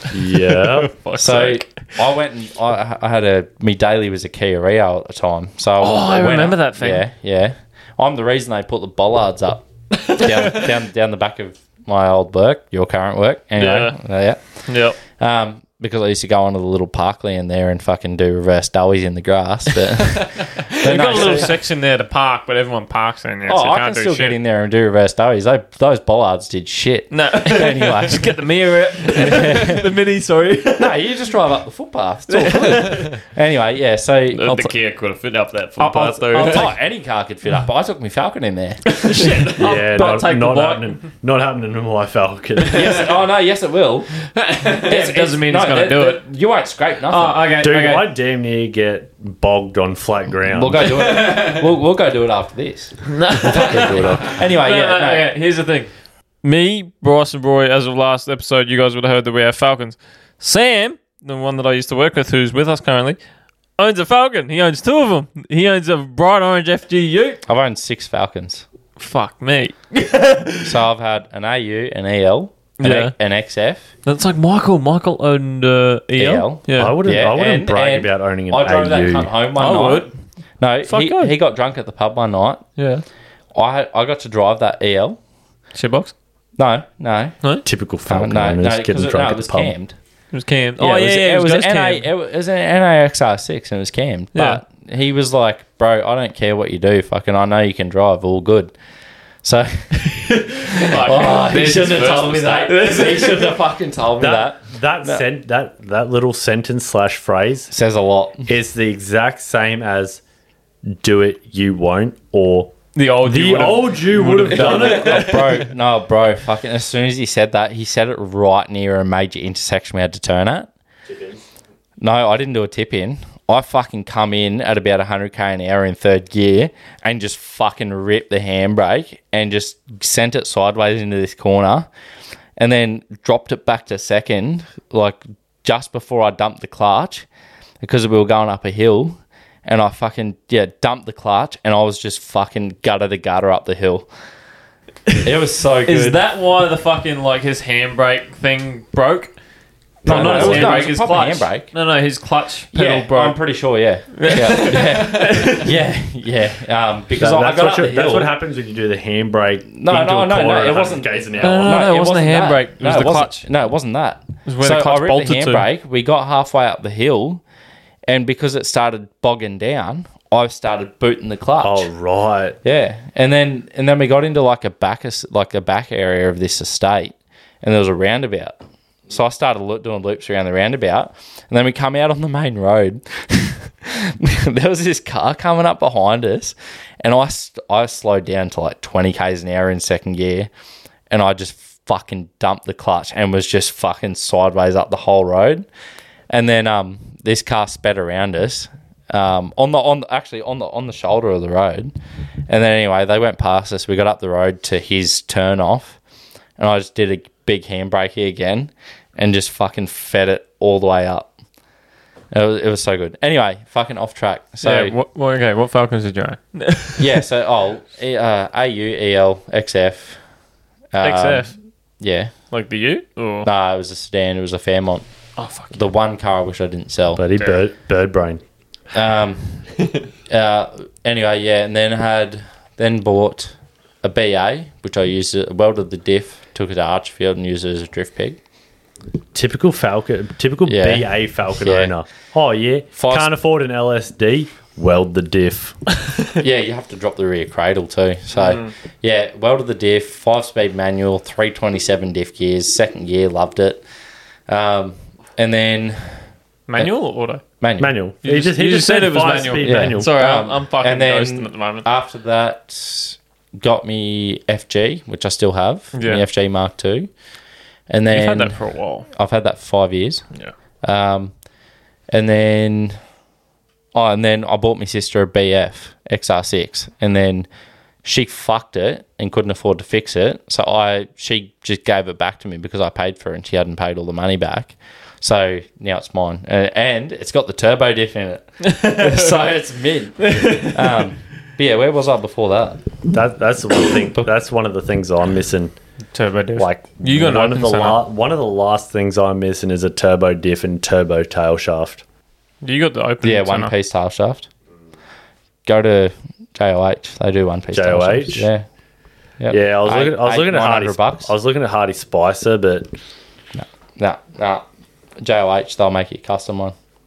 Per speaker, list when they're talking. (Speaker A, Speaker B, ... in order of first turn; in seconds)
Speaker A: 0.1-0.9, 39.6-43.1, 47.5-50.9, 53.5-54.3, 76.7-79.3, 87.6-89.7, 104.2-107.7, 108.5-110.2, 110.8-115.4, 121.1-121.4, 150.1-150.8, 157.2-161.8, 171.6-172.6, 227.1-228.4, 239.3-245.8, 257.8-260.1, 293.1-295.7, 296.5-302.0, 307.7-308.5, 309.5-312.9
Speaker B: 0.7-1.7, 5.8-7.0, 10.0-10.7, 13.6-14.0, 14.7-15.0, 20.1-24.4, 27.1-31.0, 32.3-33.1, 35.8-36.7, 38.9-41.0, 44.4-46.2, 47.1-48.1, 51.2-51.6, 53.1-55.9, 56.4-63.2, 63.8-67.4, 69.0-70.7, 72.8-73.1, 74.0-77.0, 79.6-80.1, 80.8-81.3, 82.8-83.0, 85.7-86.1, 90.3-92.0, 94.3-94.6, 100.3-103.6, 112.9-115.7, 145.8-149.3, 150.0-153.4, 154.1-155.7, 161.4-163.4, 164.4-165.7, 214.6-217.1, 221.0-221.6, 222.5-223.5, 225.4-225.8, 248.4-248.7, 256.7-257.4, 258.2-261.9, 265.9-266.2, 268.1-269.1, 288.6-289.4, 290.2-291.0, 296.1-298.1, 302.6-303.8
Speaker C: 1.1-14.4, 15.0-21.5, 23.4-28.4, 29.1-29.8, 30.8-34.7, 36.3-40.2, 42.7-44.2, 44.9-47.4, 50.5-55.3, 67.5-68.6, 70.6-73.9, 76.2-82.7, 83.5-85.2, 86.6-87.4, 88.0-90.0, 90.8-98.7, 99.4-105.3, 107.7-108.5, 114.4-120.7, 122.0-131.9, 132.6-137.2, 137.8-144.1, 145.2-146.2, 150.0-151.7, 152.7-158.3, 159.7-167.4, 168.1-171.9, 172.6-178.6, 179.1-190.5, 191.1-195.7, 196.3-201.9, 202.5-206.0, 206.6-211.3, 212.3-214.9, 217.0-220.2, 220.9-222.3, 223.4-225.1, 225.7-227.2, 228.9-238.4, 240.6-241.9, 242.9-243.3, 246.4-253.8, 254.5-256.2, 257.6-257.9, 259.6-267.1, 267.9-270.2, 270.8-271.3, 272.1-273.0, 273.9-277.5, 278.0-292.8, 303.2-304.5, 305.6-308.6, 309.4-311.3, 313.5-314.6, 315.2-316.7
Speaker D: 34.3-36.7, 101.2-102.8